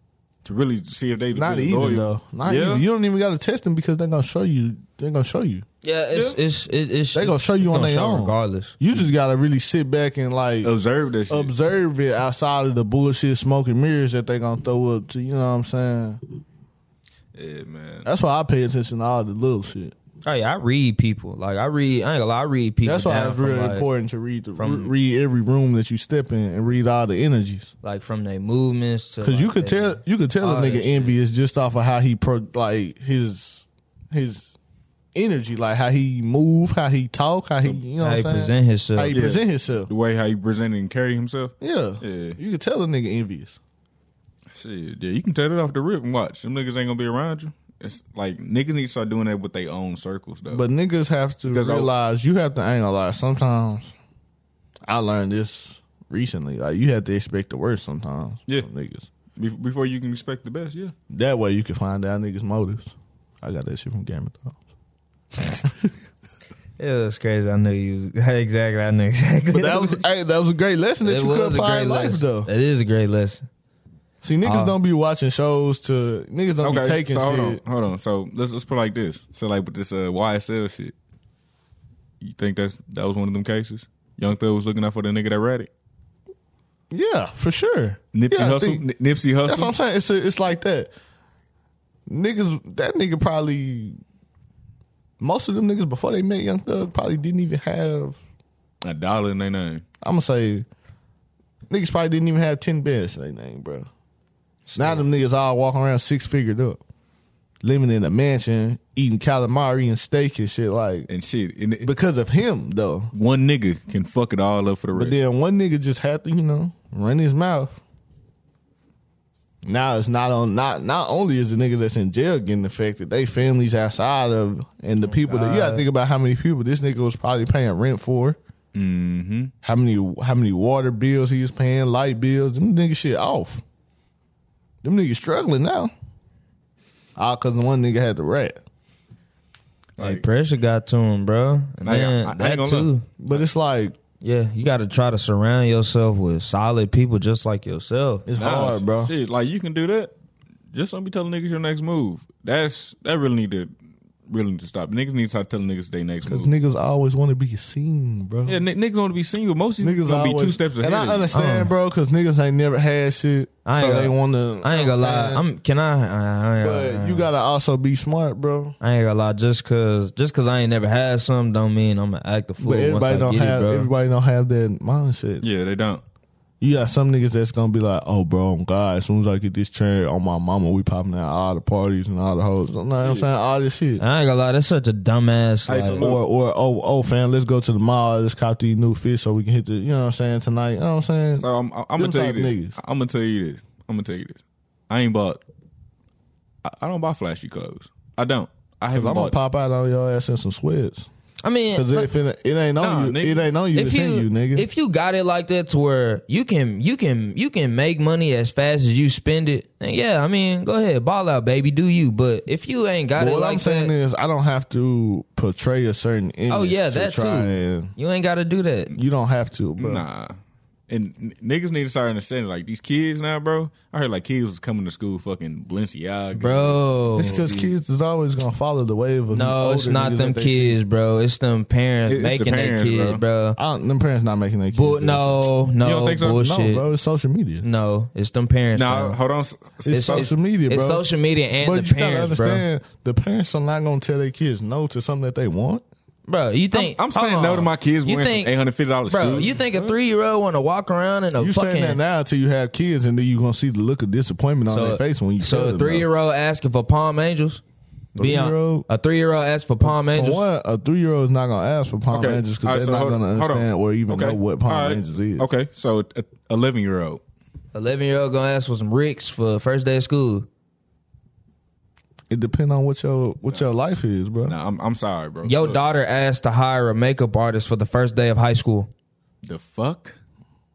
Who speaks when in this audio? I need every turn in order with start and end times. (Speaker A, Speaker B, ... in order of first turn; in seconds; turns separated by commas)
Speaker A: 0.4-2.8, Speaker B: 1.3-5.6, Speaker C: 5.8-8.8, Speaker B: 7.1-10.7, Speaker A: 10.6-11.5, Speaker B: 11.3-16.2, Speaker A: 17.3-18.1, Speaker B: 18.0-19.9, Speaker C: 20.2-23.9, Speaker B: 22.8-27.7, Speaker C: 24.6-24.9, Speaker C: 27.8-31.2, Speaker B: 29.2-34.5, Speaker B: 35.1-39.9, Speaker C: 38.0-39.2, Speaker A: 39.1-42.4, Speaker B: 41.6-43.6, Speaker A: 44.5-50.6, Speaker B: 50.5-53.9, Speaker A: 51.5-51.9, Speaker B: 54.9-59.1, Speaker A: 59.4-60.9, Speaker B: 61.1-64.6, Speaker B: 65.5-65.9, Speaker C: 66.8-70.0, Speaker B: 69.5-72.5, Speaker C: 71.0-73.5, Speaker B: 74.2-77.6, Speaker C: 74.4-74.7, Speaker A: 76.6-80.9, Speaker A: 82.2-85.7, Speaker B: 86.9-88.8, Speaker A: 88.1-89.7, Speaker B: 89.4-90.9, Speaker B: 92.1-94.0, Speaker B: 95.2-98.2, Speaker A: 98.8-99.8, Speaker B: 100.0-100.7, Speaker B: 101.7-103.9, Speaker C: 104.7-105.0, Speaker B: 104.7-106.8, Speaker B: 107.6-111.1, Speaker A: 111.1-111.9, Speaker B: 111.8-113.1, Speaker A: 113.1-115.2, Speaker B: 114.9-117.8, Speaker B: 119.6-128.4, Speaker C: 125.1-125.8, Speaker A: 128.7-129.5, Speaker B: 129.6-133.6, Speaker B: 134.8-135.9, Speaker B: 137.2-138.6, Speaker A: 140.0-140.2, Speaker C: 140.0-143.0, Speaker A: 141.8-143.4, Speaker B: 143.2-143.9, Speaker C: 144.2-148.2, Speaker B: 148.2-149.1, Speaker A: 148.4-150.1, Speaker A: 150.7-153.7, Speaker A: 154.3-156.5, Speaker B: 156.2-158.6, Speaker A: 158.4-161.3, Speaker B: 159.8-165.4, Speaker C: 161.3-161.7, Speaker C: 163.7-167.3, Speaker B: 166.6-168.8, Speaker C: 168.8-173.9, Speaker B: 172.6-175.4, Speaker A: 175.4-176.0, Speaker B: 176.6-184.0, Speaker A: 183.0-183.3, Speaker C: 184.0-186.1, Speaker A: 185.7-186.2, Speaker B: 185.9-192.8, Speaker A: 191.4-195.4, Speaker A: 196.6-199.4, Speaker B: 198.9-201.1, Speaker C: 201.4-202.1, Speaker B: 201.7-204.7, Speaker A: 202.8-203.5, Speaker C: 203.7-213.9, Speaker B: 213.2-217.9, Speaker C: 216.5-218.9, Speaker B: 218.9-220.0, Speaker A: 219.8-220.4, Speaker A: 220.9-227.5, Speaker C: 226.4-227.6, Speaker B: 227.2-230.8, Speaker C: 229.3-233.6, Speaker A: 232.1-233.2, Speaker B: 233.6-235.5, Speaker C: 234.7-236.8, Speaker A: 235.8-236.5, Speaker B: 236.3-237.6, Speaker C: 237.6-239.2, Speaker A: 238.7-240.3, Speaker B: 239.9-241.0, Speaker C: 239.9-242.7, Speaker B: 241.6-245.8, Speaker C: 246.3-248.5, Speaker A: 246.7-249.6, Speaker C: 249.1-252.0, Speaker B: 251.3-256.1, Speaker C: 254.7-257.6, Speaker B: 258.1-258.9, Speaker C: 258.1-260.4, Speaker B: 259.8-265.5, Speaker A: 262.1-267.2, Speaker C: 267.7-270.5, Speaker B: 272.3-274.6, Speaker A: 274.5-275.8, Speaker C: 275.4-278.9, Speaker A: 279.4-280.2